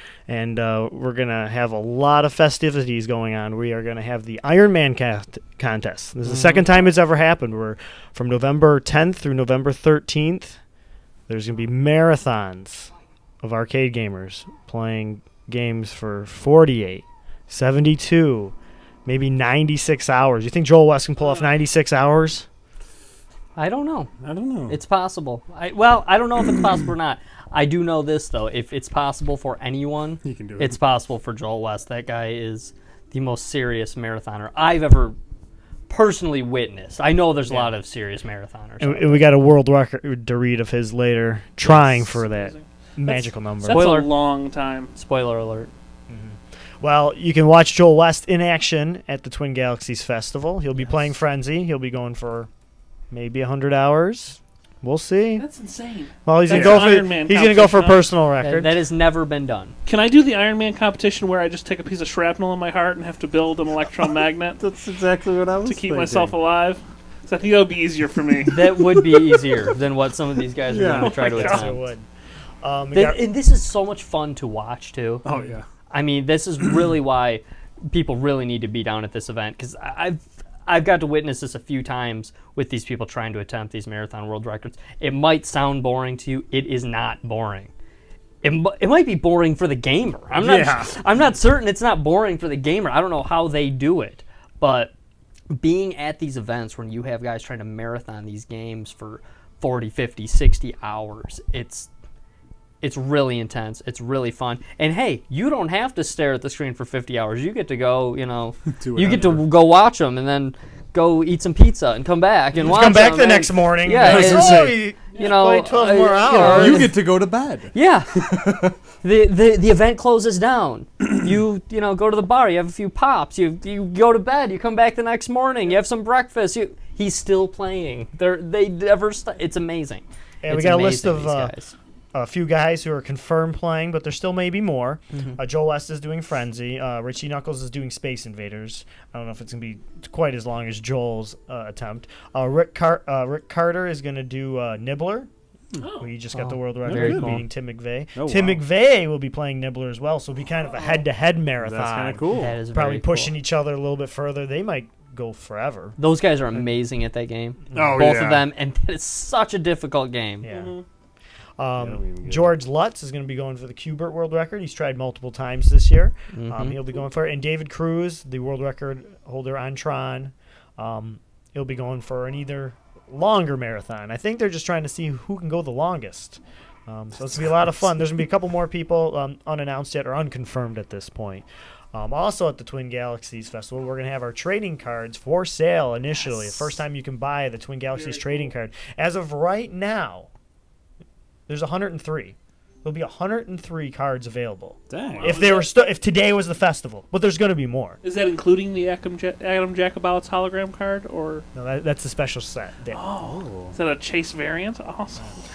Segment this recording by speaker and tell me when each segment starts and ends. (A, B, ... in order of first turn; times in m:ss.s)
0:00.3-0:10.6 A
0:06.2-0:06.6 B
0:11.3-0:18.5 A
0:19.1-0:22.5 A
0:21.2-0:21.5 C
0:23.6-0:24.1 B
0:24.2-0:24.8 D
0:24.7-0:35.2 B
0:30.2-0:30.8 D
0:35.9-0:39.3 B
0:37.4-0:37.7 A
0:38.8-0:43.9 A
0:41.6-0:44.9 C
0:43.6-0:44.1 B
0:44.9-0:45.7 B
0:46.1-0:52.5 A
0:53.1-0:55.5 A
0:55.4-0:58.1 C
0:56.2-0:58.8 A
0:58.4-0:59.8 B
0:59.9-1:04.6 C
1:04.1-1:06.4 D
1:05.6-1:08.5 C
1:08.5-1:11.9 B
1:08.8-1:09.4 D
1:10.7-1:11.1 D
1:11.0-1:11.8 C
1:11.1-1:12.1 A
1:12.6-1:13.3 A
1:12.9-1:15.2 B
1:15.2-1:15.7 D
1:15.9-1:27.7 B
1:28.4-1:34.9 B
1:30.4-1:31.0 D
1:35.5-1:41.9 B
1:42.8-1:57.0 B
1:48.8-1:49.4 D
1:52.6-1:57.0 A
1:54.0-1:54.8 D
1:56.4-1:58.7 D
1:57.7-1:58.2 B
1:59.0-2:11.7 B
2:10.4-2:11.6 A
2:12.1-2:25.3 A
2:15.1-2:15.4 B
2:25.8-2:26.1 C
2:25.9-2:36.0 A
2:26.3-2:27.4 B
2:26.8-2:27.5 D
2:28.2-2:28.6 D
2:31.6-2:32.6 D
2:32.3-2:33.3 B
2:36.0-2:40.5 B
2:37.7-2:38.0 A
2:37.7-2:38.5 D
2:40.4-2:40.8 C
2:40.4-2:40.8 A
2:41.6-3:10.3 A
2:41.8-2:42.5 D
2:46.3-2:46.8 B
3:07.9-3:08.5 C
3:11.5-3:18.0 A
3:14.9-3:15.4 D
3:15.0-3:15.7 C
3:18.0-3:21.5 C
3:21.5-3:23.1 A
3:22.9-3:25.3 C
3:23.2-3:23.8 D